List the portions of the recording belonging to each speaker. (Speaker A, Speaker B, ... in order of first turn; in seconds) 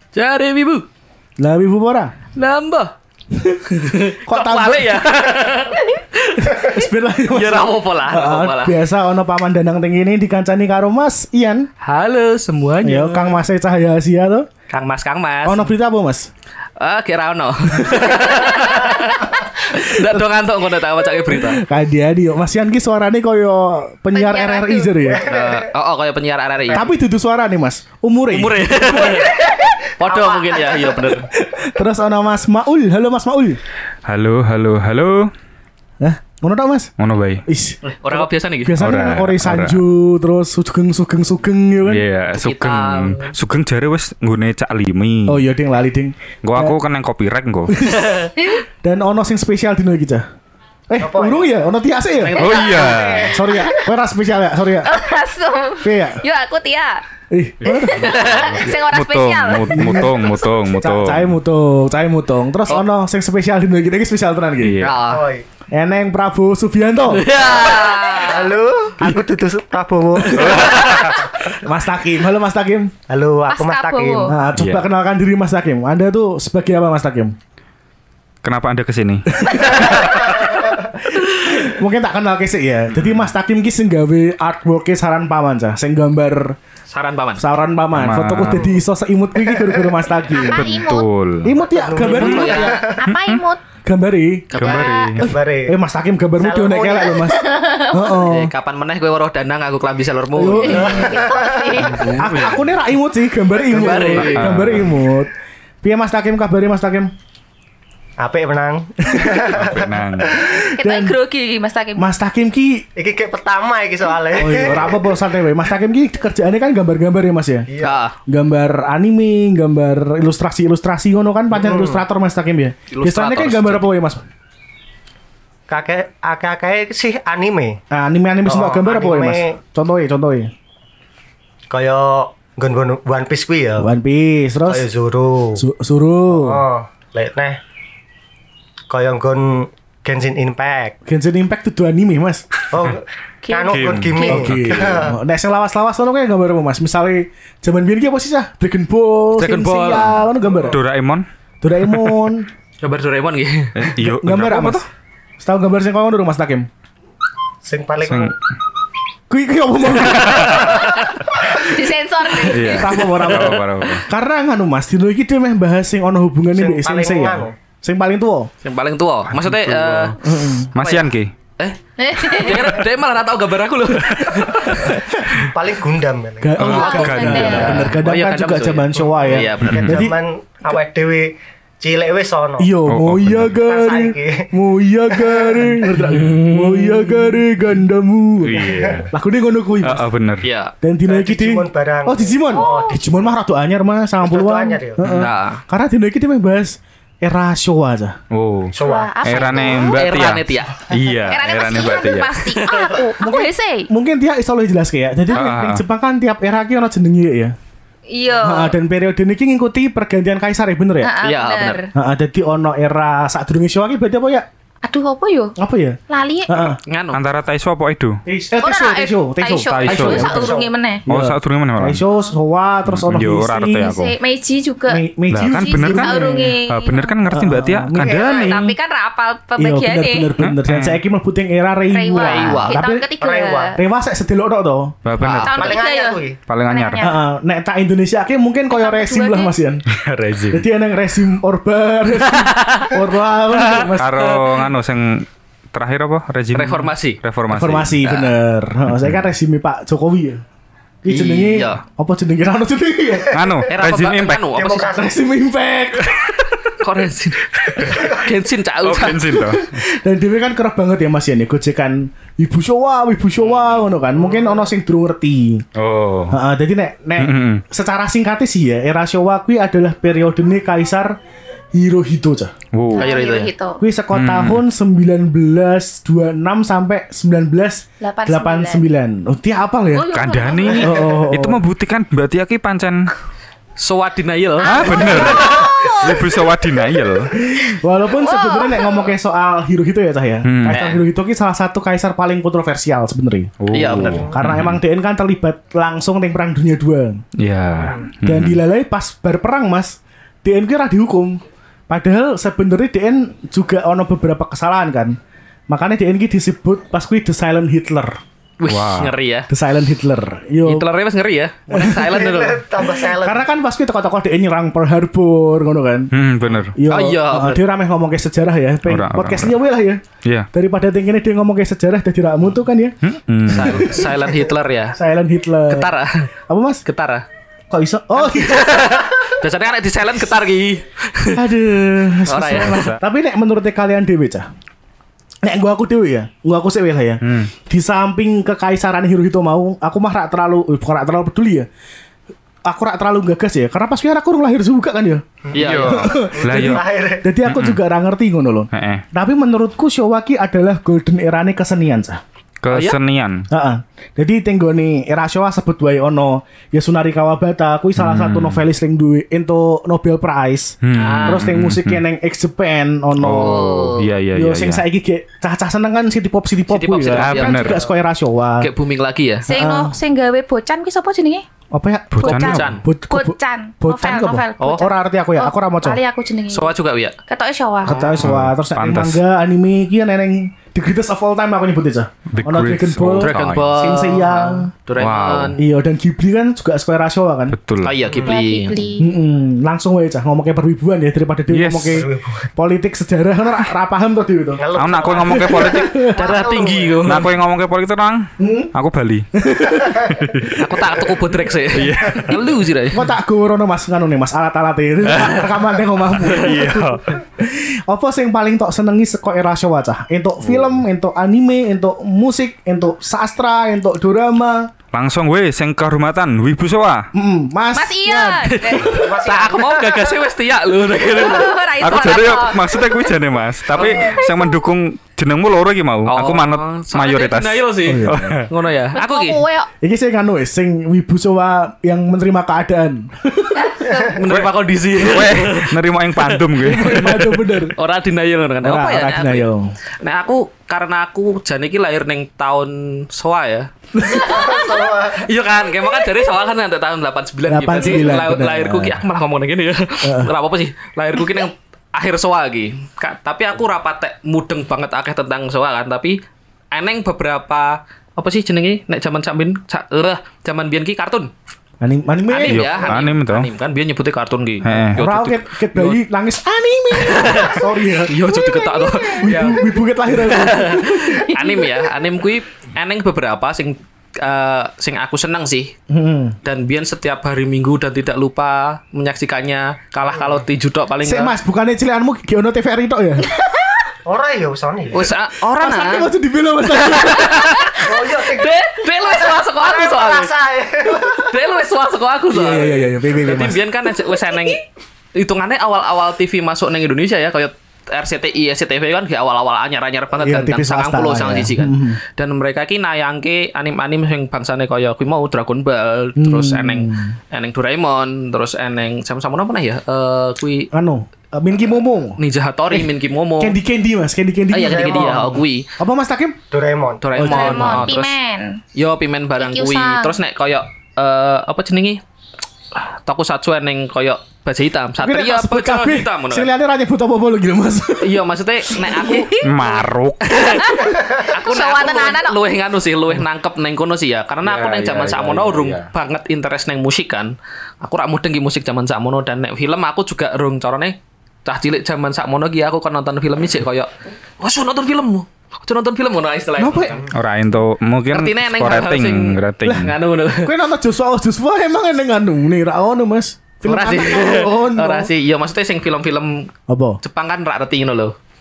Speaker A: 0.1-0.8, 2.3-2.9, 3.8-6.8, 7.3-8.8, 11.8-13.4, 14.7-15.7, 16.8-21.6, 25.2-26.9, 28.3-31.3, 37.8-39.0, 42.3-43.3, 47.9-48.3, 52.2-53.4, 64.8-65.2, 67.1-68.5, 70.3-71.1, 86.9-87.5, 92.0-92.8, 94.5-95.1, 98.2-101.1, 101.9-102.5, 103.7-104.8, 117.8-118.2, 122.9-123.9, 149.4-150.2, 152.8-153.9, 163.1-163.6, 168.6-175.0, 177.4-180.0, 186.1-187.4, 190.4-190.7, 195.0-195.6, 199.9-200.8, 202.6-202.9, 211.2-211.8, 216.9-217.2, 232.2-232.8, 235.2-235.4, 242.3-244.5, 246.5-247.2, 248.0-248.3, 251.1-251.8, 253.7-255.0, 256.7-259.4, 273.0-273.5, 283.8-285.7, 290.7-291.0, 293.7-294.3, 308.6-309.5, 310.6-312.6, 316.9-317.6, 323.5-325.0, 325.7-326.3, 326.8-327.2, 328.1-331.4, 332.2-332.9, 345.5-346.1, 352.7-353.0, 360.9-361.5, 363.2-364.1, 366.7-367.8, 368.6-369.5, 372.3-372.8, 376.5-377.1, 377.9-378.3, 383.2-385.6, 387.8-388.9, 395.9-397.3, 400.6-403.1, 405.1-405.5, 418.4-422.3, 423.7-424.2, 426.1-429.4, 434.2-439.5, 440.0-443.7, 444.4-456.2, 456.7-461.3, 462.3-466.0, 466.9-475.7, 476.4-481.3, 484.9-486.1, 486.7-490.3, 491.1-494.6, 495.1-510.7, 512.2-513.5, 514.5-515.6, 517.0-518.2, 518.7-522.0, 523.0-526.5, 528.0-529.4, 530.2-547.0, 548.1-550.5, 553.6-556.5, 557.0-558.1
Speaker B: 1.4-2.1, 3.3-5.2, 6.4-11.7, 12.8-14.5, 15.4-16.3, 19.9-20.3, 21.3-25.2, 26.7-29.3, 31.3-33.6, 36.0-36.9, 37.5-42.0, 45.3-46.8, 47.7-48.0, 48.8-50.2, 50.9-55.0, 55.8-56.2, 57.3-58.0, 59.7-60.2, 60.7-64.9, 65.7-67.3, 71.6-72.9, 74.3-77.3, 79.3-86.5, 87.4-90.8, 91.4-92.9, 93.8-98.5, 100.3-101.1, 102.2-107.1, 110.3-111.2, 112.0-112.8, 114.3-117.7, 118.3-124.2, 127.9-130.5, 133.8-134.9, 135.6-136.6, 141.1-142.5, 144.2-150.8, 151.6-152.5, 154.0-154.8, 155.4-156.7, 159.3-160.8, 162.6-168.5, 170.1-170.7, 174.3-175.5, 176.4-180.2, 182.6-190.1, 190.8-198.2, 203.2-207.5, 208.4-211.1, 211.9-214.4, 215.6-216.8, 218.2-223.9, 224.9-226.5, 227.3-228.6, 229.6-233.1, 233.7-235.0, 237.0-239.8, 240.5-244.3, 247.5-250.4, 251.0-253.4, 254.6-256.2, 259.3-265.6, 266.3-271.2, 271.7-272.5, 273.8-280.1, 280.8-281.6, 287.3-293.6, 294.3-297.2, 298.2-305.2, 305.7-308.2, 309.5-310.9, 311.7-312.3, 313.0-316.1, 316.7-323.0, 323.5-324.1, 324.9-325.9, 326.5-326.8, 327.7-328.9, 331.3-334.5, 335.4-341.7, 342.6-345.2, 345.8-352.2, 353.5-368.7, 369.5-369.9, 371.7-376.0, 377.8-384.7, 385.6-387.6, 389.0-394.6, 395.4-396.1, 398.4-398.7, 399.4-400.6, 402.9-414.7, 417.1-418.8, 427.9-428.4, 429.8-433.7, 436.8-437.8, 438.6-439.7, 444.0-444.3, 447.5-449.0, 450.0-450.3, 461.8-462.8, 465.0-468.2, 469.2-471.2, 475.9-476.4, 481.0-483.4, 485.5-487.4, 492.3-493.6, 500.2-502.0, 506.2-507.1, 510.7-516.4, 517.1-517.9, 525.0-529.3, 546.6-547.0, 549.6-555.1, 556.7-557.0
Speaker C: 24.1-24.9, 48.4-48.6, 52.5-53.9, 54.8-57.0, 57.6-60.0, 73.5-74.3, 90.3-91.1, 92.8-93.6, 94.6-95.2, 97.2-98.2, 100.6-102.1, 110.8-112.1, 143.4-144.6, 160.7-162.9, 172.0-172.8, 176.7-178.0, 192.5-193.0, 198.8-200.0, 201.3-203.9, 208.1-208.8, 211.0-211.9, 214.8-215.5, 216.1-216.8, 218.6-221.0, 223.8-227.2, 228.3-230.3, 231.9-233.8, 235.4-237.2, 238.7-239.5, 272.9-273.8, 278.0-278.9, 279.9-281.2, 284.6-286.3, 288.1-289.1, 369.5-371.4, 372.2-376.7, 377.3-378.0, 388.2-389.1, 417.7-419.0, 421.1-423.1, 423.7-424.5, 428.9-429.7, 433.5-434.2, 444.0-445.0, 468.3-469.4, 471.2-471.9, 487.2-487.8, 494.1-494.5, 517.2-518.6, 519.4-520.1, 530.5-532.4
Speaker D: 25.1-25.6, 29.2-31.0, 51.0-51.5, 65.0-65.5, 67.5-71.5, 73.1-74.4, 79.7-80.7, 89.5-89.8, 91.5-93.0, 95.2-95.7, 96.4-97.2, 100.7-102.1, 103.7-104.3, 108.2-110.6, 113.0-115.2, 117.7-118.0, 121.5-122.0, 125.7-127.8, 128.4-129.6, 131.7-133.9, 134.7-135.6, 136.3-137.6, 138.9-140.9, 142.7-145.2, 157.6-158.3, 166.5-167.5, 175.5-177.3, 178.9-182.8, 183.6-184.5, 185.1-185.6, 188.6-189.1, 191.0-193.3, 194.2-195.0, 198.7-199.8, 219.9-220.7, 227.9-228.6, 233.2-233.8, 235.2-236.4, 253.4-253.7, 254.5-255.1, 257.9-258.2, 293.9-294.4, 297.8-298.1, 312.1-313.4, 345.5-347.3, 367.6-367.9, 388.1-388.4, 391.9-392.5, 394.6-397.2, 418.8-420.2, 444.2-445.2, 480.1-480.4, 484.0-485.1, 487.8-491.3, 514.6-515.4, 516.5-517.1
Speaker E: 34.1-35.3, 37.0-37.4, 38.8-39.8, 41.9-45.4, 46.4-47.9, 52.4-53.3, 58.0-61.3, 64.6-65.0, 70.3-71.3, 74.5-74.8, 78.4-79.4, 82.9-83.2, 87.9-88.7, 90.5-91.5, 93.0-93.4, 94.6-95.3, 102.1-102.7, 104.2-104.9, 109.4-110.4, 143.7-145.0, 150.6-151.2, 151.9-152.2, 153.7-154.8, 158.0-158.3, 159.9-160.8, 162.4-164.1, 169.4-170.1, 170.7-171.3, 176.6-177.9, 179.6-180.0, 182.8-183.6, 188.4-189.1, 189.8-190.5, 198.3-202.5, 205.3-205.8, 217.1-218.2, 219.6-220.4, 221.1-222.0, 222.9-224.2, 225.3-228.6, 230.4-231.0, 235.0-235.8, 236.5-237.1, 239.9-240.7, 243.9-248.0, 248.9-249.2, 253.3-254.5, 258.8-259.8, 265.8-266.4, 267.2-267.6, 272.7-273.1, 274.1-274.6, 280.1-283.1, 284.6-287.4, 290.4-290.9, 293.6-294.8, 297.4-298.6, 308.6-309.1, 316.1-316.8, 318.9-319.6, 320.2-320.5, 323.0-323.9, 332.6-333.0, 337.2-337.5, 345.6-346.8, 347.4-347.8, 348.7-349.0, 352.6-353.5, 358.0-358.6, 360.8-362.0, 363.2-364.9, 367.1-367.8, 372.1-372.8, 378.2-379.2, 382.3-383.9, 385.0-385.6, 387.5-388.0, 391.5-392.1, 394.7-396.1, 397.0-399.3, 400.1-400.7, 401.7-402.4, 406.2-407.2, 410.4-410.8, 414.9-417.1, 421.8-428.5, 434.2-437.2, 462.4-463.5, 464.6-465.0, 529.4-530.3, 534.4-535.9, 547.1-549.9